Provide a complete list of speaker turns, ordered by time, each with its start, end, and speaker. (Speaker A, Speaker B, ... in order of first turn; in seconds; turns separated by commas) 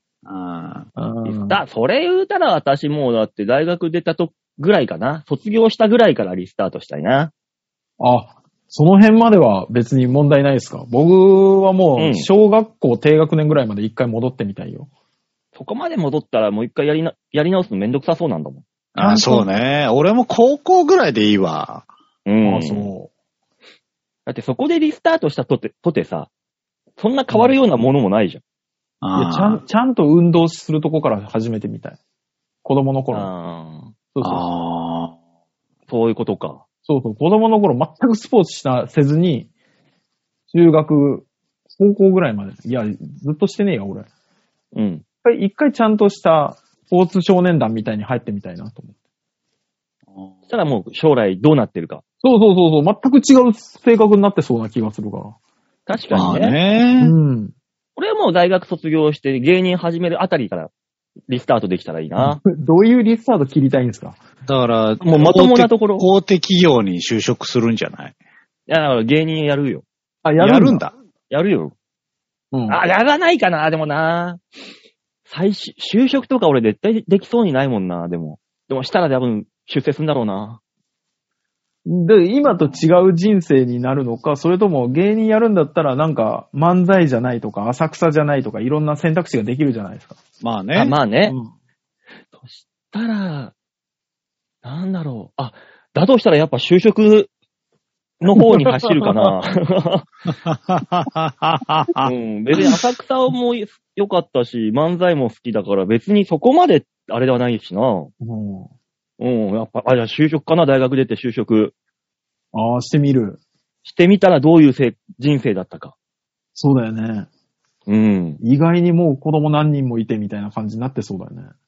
Speaker A: 0.2-0.9, Speaker B: 1.0-1.6, Speaker C: 1.2-7.3, Speaker B: 8.0-14.9, Speaker C: 12.0-12.3, Speaker C: 15.6-18.6, Speaker A: 18.9-21.9, Speaker B: 19.0-19.5, Speaker C: 22.3-22.9, Speaker B: 22.4-23.1, Speaker C: 24.3-26.3, Speaker C: 27.0-28.4, Speaker B: 27.3-27.6, Speaker A: 29.0-29.6, Speaker B: 29.1-32.0, Speaker B: 32.6-33.3, Speaker C: 33.1-33.9, Speaker B: 34.1-34.5, Speaker A: 34.2-35.1, Speaker C: 35.9-36.6, Speaker B: 36.9-39.5, Speaker B: 40.5-44.1, Speaker C: 44.7-45.0, Speaker B: 45.2-49.0, Speaker C: 50.5-52.0, Speaker B: 52.2-55.4, Speaker C: 55.9-56.6, Speaker A: 56.1-57.1, Speaker B: 57.0-57.5, Speaker C: 58.0-60.7, Speaker C: 61.3-62.4, Speaker B: 62.2-64.2, Speaker A: 64.5-68.1, Speaker C: 65.0-66.1, Speaker C: 68.7-69.8, Speaker B: 70.2-70.8, Speaker A: 70.4-70.9, Speaker C: 71.3-71.7, Speaker B: 72.5-72.8, Speaker C: 72.7-74.4, Speaker C: 75.3-80.6, Speaker B: 81.9-90.2, Speaker A: 82.5-82.8, Speaker A: 90.4-91.0, Speaker C: 90.8-91.4, Speaker C: 92.4-93.5, Speaker C: 94.6-97.3, Speaker C: 98.2-100.1, Speaker B: 98.6-99.3, Speaker A: 100.5-102.1, Speaker C: 102.0-108.1, Speaker B: 108.2-108.7, Speaker C: 109.2-111.7, Speaker B: 112.5-113.4, Speaker C: 113.8-115.9, Speaker B: 116.5-117.3, Speaker C: 117.9-118.4, Speaker B: 118.4-121.5